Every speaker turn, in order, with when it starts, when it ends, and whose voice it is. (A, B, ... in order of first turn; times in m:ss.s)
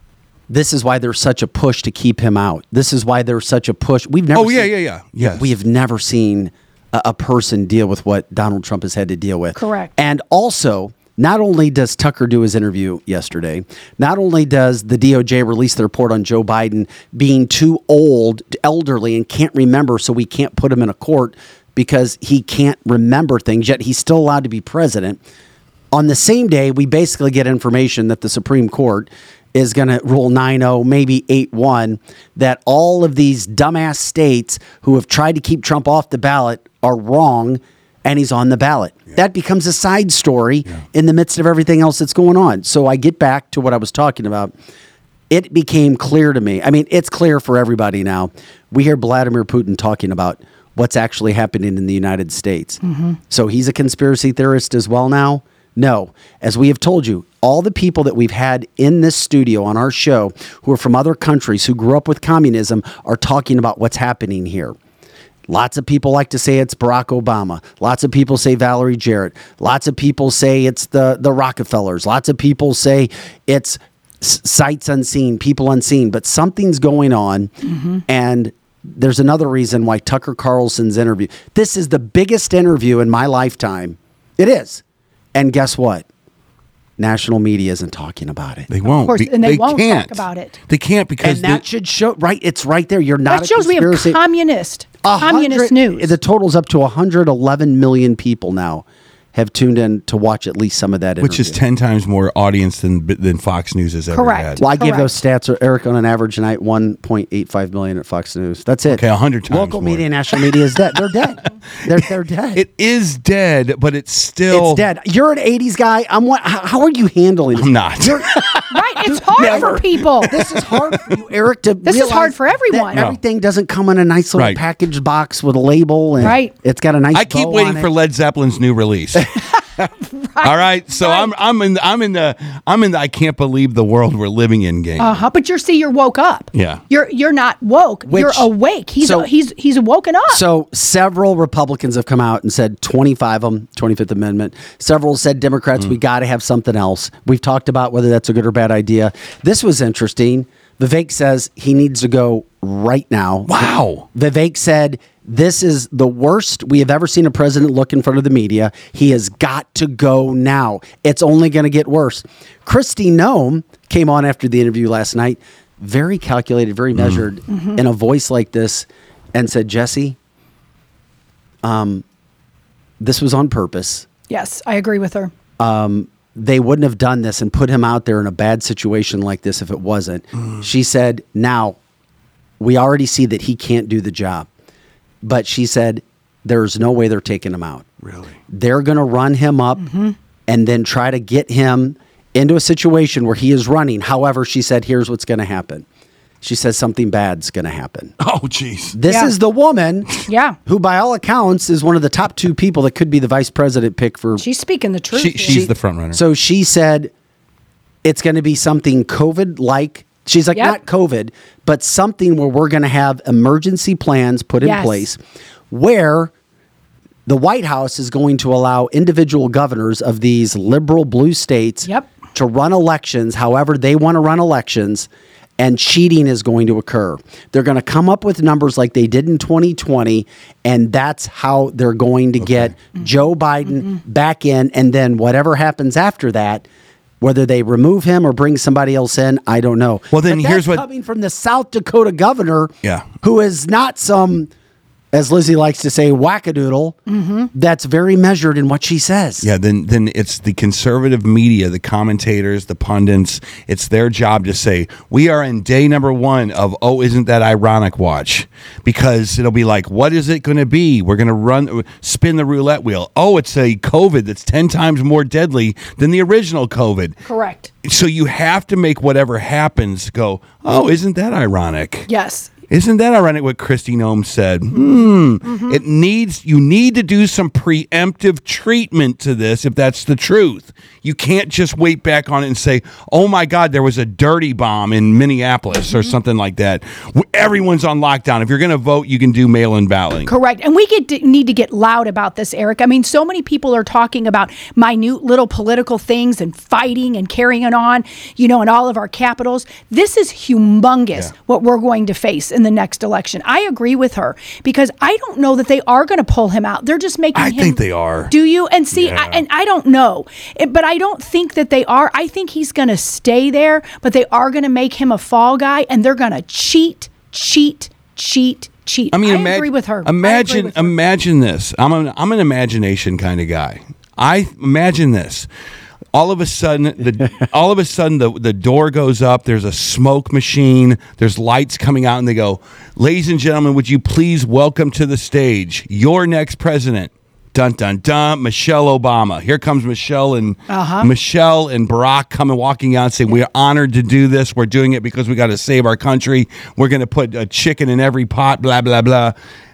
0:00.5-0:25.2 A
0:04.3-0:05.5 B
0:09.6-0:09.9 C
0:25.9-0:44.6 A
0:45.3-1:04.8 A
0:52.8-0:53.2 C
1:05.5-1:17.5 A
1:17.6-1:18.0 C
1:18.1-1:24.8 A
1:25.3-1:26.1 A
1:27.0-1:28.7 A
1:28.7-1:31.6 B
1:29.0-1:30.6 C
1:31.2-1:34.2 A
1:33.3-1:36.1 C
1:35.0-1:41.6 A
1:41.2-1:44.6 B
1:44.1-1:45.1 C
1:44.6-1:52.6 A
1:48.9-1:50.4 B
1:52.6-1:54.8 B
1:54.5-2:07.9 A
1:57.6-2:01.2 B
1:58.7-2:00.3 C
2:01.8-2:03.0 C
2:06.2-2:06.5 C
2:07.1-2:09.4 B
2:10.0-2:11.3 C
2:10.4-2:15.2 B
2:15.0-2:20.4 C
2:16.5-2:16.8 B
2:18.1-2:18.5 A
2:19.0-2:19.3 A
2:20.3-2:50.2 A
2:33.5-2:34.1 B
2:47.0-2:47.2 B
2:47.5-2:47.8 C
2:51.6-2:52.0 A
2:53.0-2:54.1 A
2:54.3-2:55.3 C
2:55.6-3:01.8 A
3:02.6-3:04.5 A
3:05.2-3:07.9 A
3:08.0-3:08.4 B
3:08.5-3:09.8 A
3:09.8-3:10.2 C
3:10.5-3:15.8 A
3:16.4-3:18.1 A
3:18.2-3:19.0 B
3:18.9-3:20.1 A
3:19.1-3:19.3 C
3:20.3-3:20.6 C
3:20.7-3:24.4 A
3:24.4-3:25.6 C
3:25.1-3:26.2 B
3:25.5-3:27.1 A
3:28.0-3:35.2 A
3:34.6-3:35.1 C
3:35.7-3:36.3 A
3:37.3-3:56.7 A
3:52.4-3:52.7 B
3:57.2-4:04.5 A
4:00.1-4:00.8 B
4:05.1-4:07.0 A
4:07.1-4:07.5 C
4:07.5-4:09.5 A
4:09.4-4:27.2 B
4:27.2-4:27.7 C
4:27.8-4:32.1 B
4:32.1-4:32.5 C
4:32.7-4:50.3 B
4:35.4-4:35.8 C
4:45.9-4:46.1 C
4:50.3-5:21.0 C
5:07.4-5:08.3 B
5:08.9-5:09.4 B
5:19.1-5:25.5 B
5:26.1-5:49.4 B
5:40.7-5:41.1 C